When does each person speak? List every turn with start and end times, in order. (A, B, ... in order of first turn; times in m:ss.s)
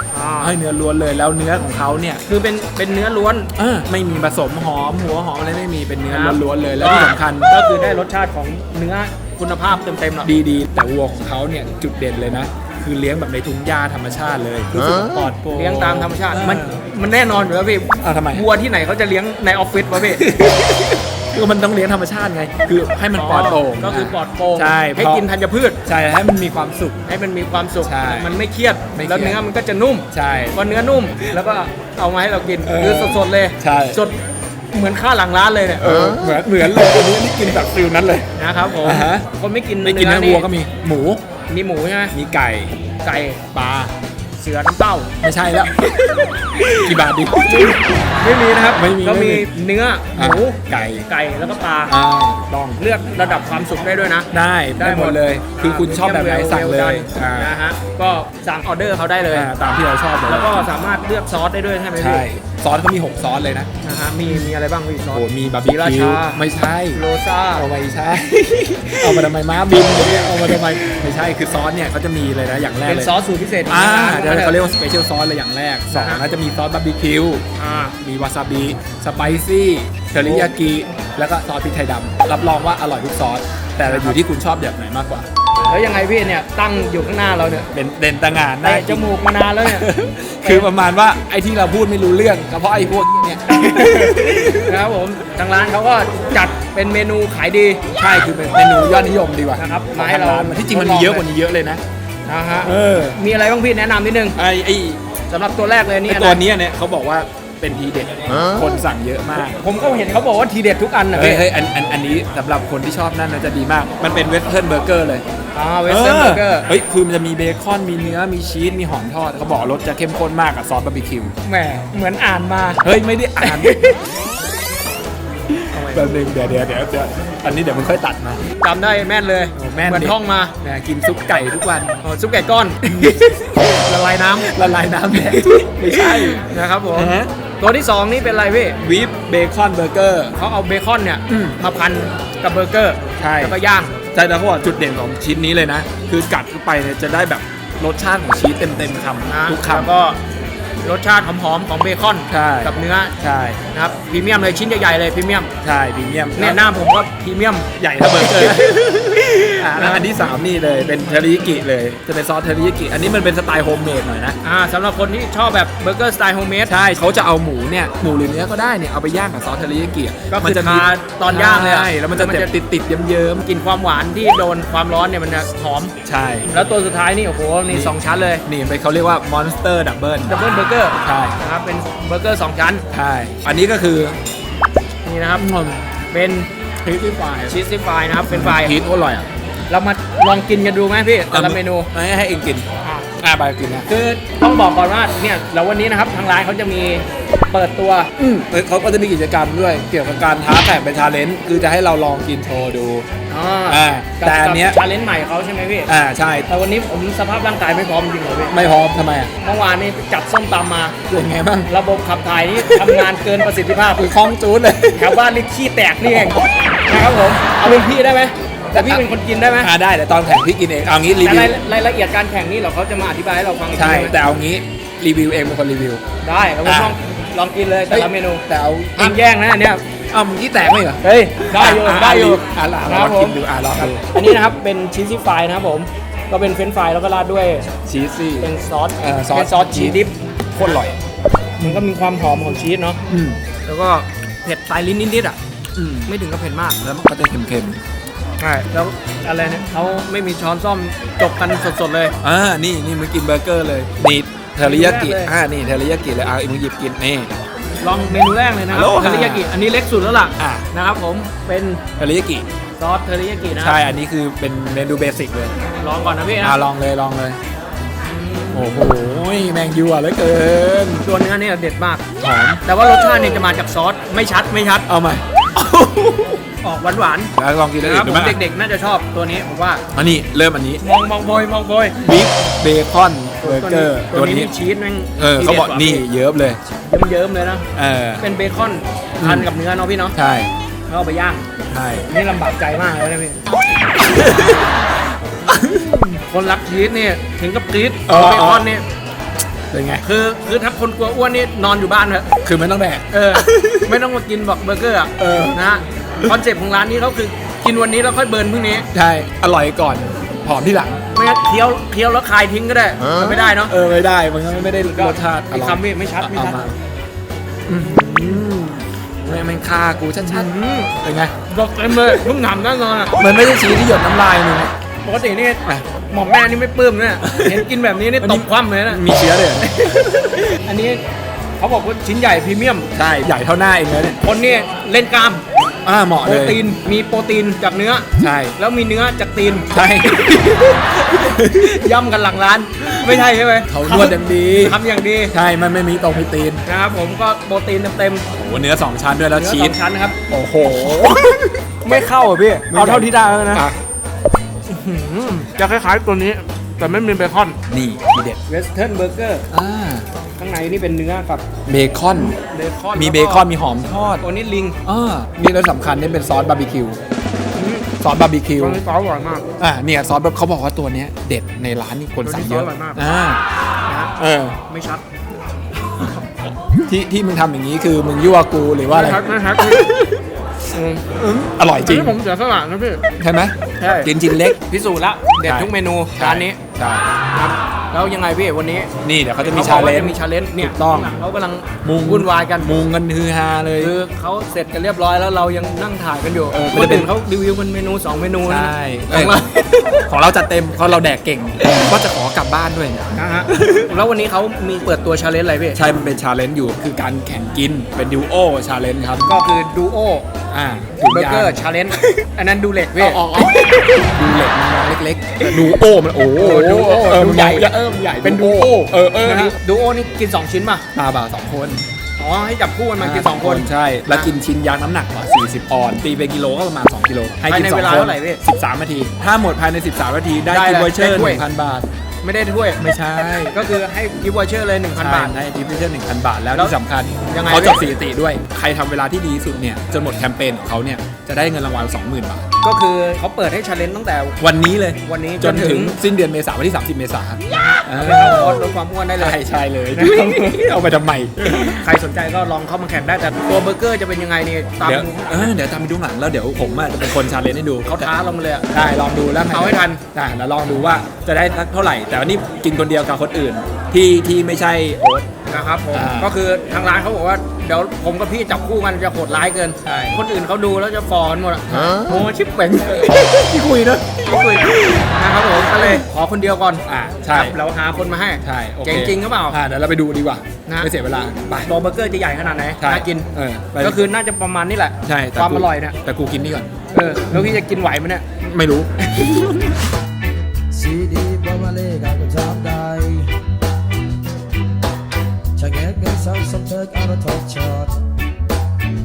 0:00.1-0:00.6 A
0:00.4-0:02.2 B
0:02.3-0:03.5 A
0:03.6-0:07.5 B
0:06.1-0:10.3 A
0:10.2-0:16.8 B
0:15.5-0:20.2 A
0:18.0-0:18.5 B
0:20.0-0:25.3 B
0:23.2-0:25.8 A
0:25.8-0:27.0 B
0:27.1-0:35.9 A
0:27.8-0:28.3 B
0:28.9-0:29.4 B
0:30.1-0:30.6 B
0:32.6-0:34.0 B
0:35.8-0:39.3 B
0:38.4-0:40.4 A
0:39.8-0:41.2 B
0:41.5-0:42.2 A
0:42.1-0:42.8 B
0:43.0-0:43.4 A
0:43.5-0:43.9 B
0:44.4-0:45.1 A
0:45.2-0:47.8 B
0:46.4-0:52.0 A
0:48.7-0:49.5 B
0:50.2-0:51.1 B
0:51.9-0:53.8 B
0:52.8-0:59.5 A
0:54.3-0:57.6 B
0:59.3-1:00.7 B
1:00.2-1:02.2 A
1:02.0-1:03.7 B
1:03.8-1:06.4 A
1:04.2-1:04.5 B
1:05.1-1:07.0 B
1:06.9-1:07.7 A
1:07.6-1:13.1 B
1:09.0-1:09.3 A
1:10.0-1:11.0 A
1:12.9-1:14.6 A
1:13.7-1:17.5 B
1:15.9-1:16.2 A
1:17.6-1:18.0 A
1:18.0-1:25.3 B
1:20.2-1:20.5 A
1:23.8-1:24.2 A
1:25.7-1:27.7 A
1:27.7-1:29.1 B
1:28.6-1:29.9 A
1:29.6-1:34.8 B
1:30.4-1:30.7 A
1:33.5-1:37.8 A
1:38.0-1:41.8 B
1:39.6-1:41.3 A
1:42.3-1:44.4 A
1:42.6-1:43.2 B
1:44.4-1:45.0 B
1:45.3-1:46.4 A
1:46.1-1:49.6 B
1:49.6-1:51.4 A
1:51.1-1:55.2 B
1:55.5-1:56.7 A
1:55.9-2:01.3 B
2:01.4-2:02.8 A
2:02.8-2:04.0 B
2:03.4-2:03.9 A
2:05.5-2:08.4 B
2:05.7-2:06.1 A
2:08.6-2:10.5 A
2:09.6-2:12.0 B
2:12.0-2:14.5 A
2:12.8-2:13.4 B
2:14.4-2:17.3 B
2:15.2-2:18.8 A
2:18.8-2:20.4 B
2:20.4-2:23.9 A
2:21.3-2:21.6 B
2:23.2-2:23.6 B
2:24.1-2:29.9 B
2:29.3-2:30.2 A
2:30.8-2:33.1 A
2:32.3-2:33.6 B
2:33.7-2:35.5 A
2:35.6-2:36.6 B
2:36.4-2:38.7 A
2:37.8-2:44.4 B
2:39.5-2:40.1 A
2:44.4-2:46.7 A
2:46.7-2:53.5 B
2:50.3-2:52.5 A
2:53.4-2:56.0 A
2:56.0-2:56.5 B
2:56.5-2:58.4 A
2:57.7-2:58.0 B
2:58.5-3:00.4 B
3:00.3-3:02.8 A
3:01.0-3:01.4 B
3:02.9-3:04.2 B
3:05.0-3:05.5 A
3:05.4-3:05.9 B
3:06.1-3:06.5 A
3:06.8-3:07.6 B
3:07.5-3:08.8 A
3:08.3-3:09.3 B
3:09.7-3:11.9 A
3:11.3-3:12.7 B
3:12.8-3:13.1 A
3:13.2-3:13.9 B
3:13.9-3:18.1 A
3:18.2-3:23.1 B
3:23.3-3:25.9 A
3:23.7-3:24.8 B
3:25.9-3:26.5 B
3:26.5-3:28.6 A
3:28.5-3:29.3 B
3:29.4-3:31.0 A
3:31.1-3:31.7 B
3:31.7-3:34.1 A
3:32.6-3:33.1 B
3:34.0-3:35.2 B
3:35.0-3:39.7 A
3:36.0-3:36.5 B
3:37.5-3:37.9 B
3:38.7-3:39.1 B
3:39.6-3:41.6 B
3:41.2-3:44.2 A
3:43.7-3:46.0 B
3:46.2-3:48.4 A
3:46.6-3:47.0 B
3:47.9-3:49.2 B
3:49.0-3:49.8 A
3:50.1-3:54.1 B
3:51.0-3:57.7 A
3:57.9-4:00.0 B
3:58.4-4:00.8 A
4:00.5-4:01.0 B
4:01.6-4:03.0 A
4:03.1-4:03.4 B
4:03.7-4:05.4 A
4:05.8-4:06.1 B
4:06.1-4:06.8 A
4:06.8-4:07.8 B
4:08.4-4:12.1 A
4:12.2-4:17.4 B
4:14.6-4:15.3 A
4:17.8-4:21.8 A
4:18.7-4:19.5 B
4:20.4-4:20.7 B
4:21.8-4:22.5 B
4:22.8-4:23.8 A
4:23.6-4:25.5 B
4:25.6-4:26.6 A
4:26.4-4:27.4 B
4:28.0-4:28.7 A
4:28.5-4:31.1 B
4:31.0-4:32.1 A
4:32.2-4:32.6 B
4:32.6-4:34.9 A
4:34.9-4:36.4 B
4:36.6-4:39.8 A
4:37.4-4:38.4 B
4:39.9-4:40.8 B
4:40.8-4:42.0 A
4:42.0-4:44.5 B
4:43.4-4:46.1 A
4:45.2-4:46.6 B
4:46.8-4:47.7 A
4:47.8-4:48.2 B
4:48.2-4:50.2 A
4:49.2-4:49.5 B
4:50.2-4:50.5 B
4:50.9-4:51.5 A
4:51.7-4:52.1 B
4:52.1-4:53.4 A
4:54.0-4:54.7 B
4:55.5-4:56.0 B
4:56.1-4:58.8 A
4:58.1-4:58.7 B
4:59.7-5:00.0 B
5:00.0-5:02.4 A
5:02.4-5:04.0 B
5:03.1-5:08.9 A
5:05.2-5:05.6 B
5:08.9-5:11.0 B
5:11.1-5:13.7 A
5:13.6-5:16.8 B
5:14.8-5:16.6 A
5:17.7-5:21.3 B
5:20.2-5:20.9 A
5:21.5-5:23.2 A
5:21.9-5:22.3 B
5:23.1-5:24.7 B
5:25.0-5:29.0 A
5:27.2-5:27.6 B
5:28.2-5:30.6 B
5:30.6-5:31.0 A
5:31.6-5:32.9 A
5:33.0-5:34.2 B
5:34.2-5:35.4 A
5:35.8-5:36.6 B
5:36.2-5:39.7 A
5:38.2-5:38.6 B
5:39.7-5:41.8 B
5:41.5-5:45.3 A
5:43.7-5:44.8 B
5:45.3-5:46.6 B
5:46.6-5:48.3 A
5:48.3-5:49.8 B
5:49.3-5:50.2 A
5:50.3-5:51.6 B
5:51.8-5:53.6 A
5:52.7-5:53.8 B
5:54.7-5:57.6 A
5:57.7-5:58.4 B
5:58.5-5:59.4 A
5:59.5-6:00.1 B
6:00.4-6:01.4 A
6:01.7-6:02.4 B
6:02.5-6:03.5 A
6:03.0-6:04.2 B
6:04.2-6:04.8 A
6:04.8-6:07.0 B
6:07.6-6:07.9 A
6:08.0-6:08.8 B
6:08.6-6:09.5 A
6:09.6-6:13.4 B
6:12.2-6:13.0 A
6:13.9-6:14.1 A
6:14.2-6:14.6 B
6:14.7-6:15.0 A
6:16.7-6:20.2 B
6:18.9-6:19.9 A
6:20.7-6:21.1 A
6:21.1-6:22.2 B
6:21.8-6:23.0 A
6:23.2-6:24.6 B
6:23.8-6:26.6 A
6:25.4-6:27.1 B
6:27.3-6:32.7 A
6:29.0-6:31.2 B
6:31.8-6:34.0 B
6:33.8-6:40.0 A
6:36.5-6:37.1 B
6:38.4-6:39.4 B
6:40.1-6:43.9 B
6:43.1-6:45.8 A
6:45.7-6:49.4 B
6:49.2-6:50.3 A
6:50.5-6:51.6 B
6:51.1-6:53.7 A
6:53.0-6:59.6 B
6:55.4-6:55.8 A
6:56.4-6:57.7 A
6:58.2-7:00.8 A
7:00.9-7:01.9 B
7:02.2-7:04.3 A
7:03.0-7:11.9 B
7:07.5-7:08.4 A
7:10.5-7:11.4 A
7:12.2-7:12.8 A
7:12.8-7:13.6 B
7:13.5-7:15.3 A
7:15.0-7:22.5 B
7:16.5-7:17.9 A
7:22.6-7:24.4 A
7:24.4-7:31.9 B
7:25.0-7:26.0 A
7:27.5-7:29.4 A
7:29.9-7:30.8 A
7:31.4-7:35.5 A
7:34.8-7:38.1 B
7:37.9-7:38.7 A
7:38.7-7:45.3 B
7:39.5-7:40.0 A
7:45.5-7:53.1 A
7:45.9-7:46.4 B
7:49.8-7:50.2 B
7:51.7-7:52.0 B
7:52.8-7:56.0 B
7:54.2-7:59.6 A
7:56.9-7:57.6 B
7:58.4-8:01.7 B
8:01.7-8:06.0 A
8:02.8-8:04.0 B
8:05.0-8:06.7 B
8:06.9-8:08.2 A
8:08.4-8:09.8 B
8:10.7-8:13.4 C
8:15.6-8:18.0 C